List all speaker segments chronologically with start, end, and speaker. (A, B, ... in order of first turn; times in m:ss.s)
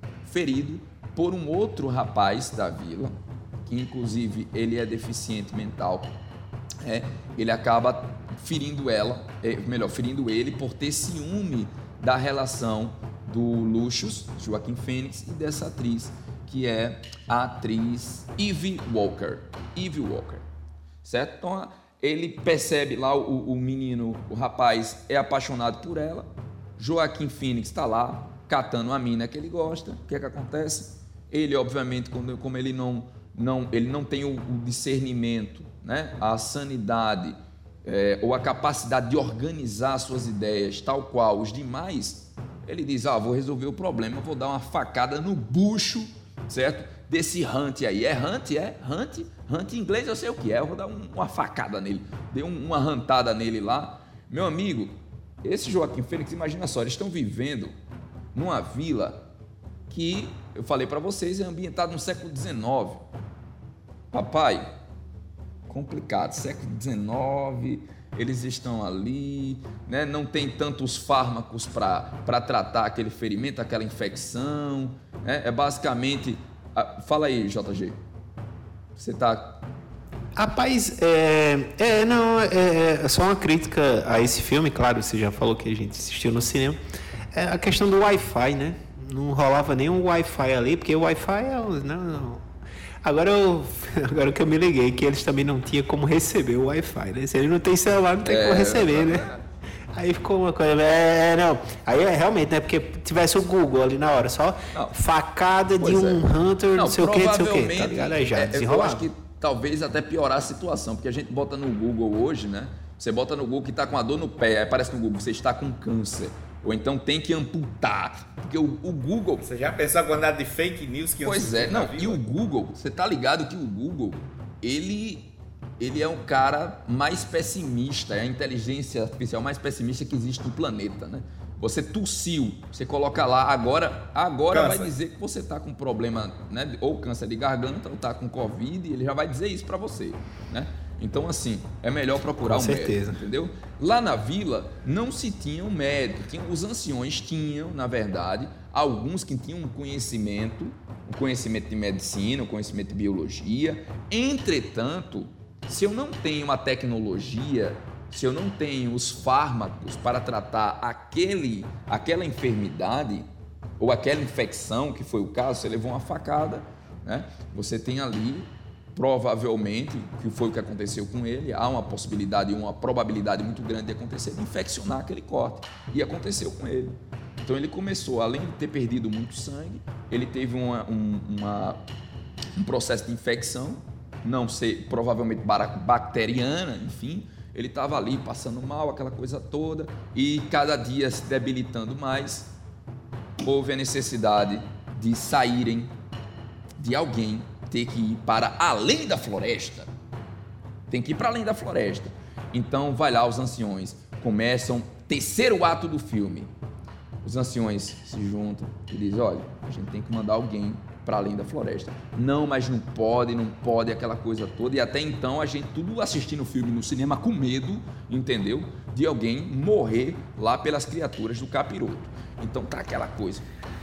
0:00.2-0:06.1 A
0:06.8-0:20.4 A
0:21.0-0:57.7 A
0:58.3-0:59.2 A
0:59.9-1:03.0 A
1:04.1-1:04.7 A
1:05.7-1:18.0 A
1:19.0-1:19.6 A
1:20.4-1:26.8 B
1:27.3-1:32.4 B
1:33.0-1:39.3 B
1:38.2-1:39.4 A
1:39.9-1:49.0 B
1:45.8-1:59.4 A
1:59.4-2:02.2 C
2:01.2-2:43.3 A
2:14.5-2:14.9 C
2:22.4-2:23.2 B
2:43.8-3:01.8 A
3:02.5-3:12.5 A
3:13.4-3:15.9 A
3:16.8-3:19.9 A
3:20.9-3:26.5 A
3:27.2-3:43.4 A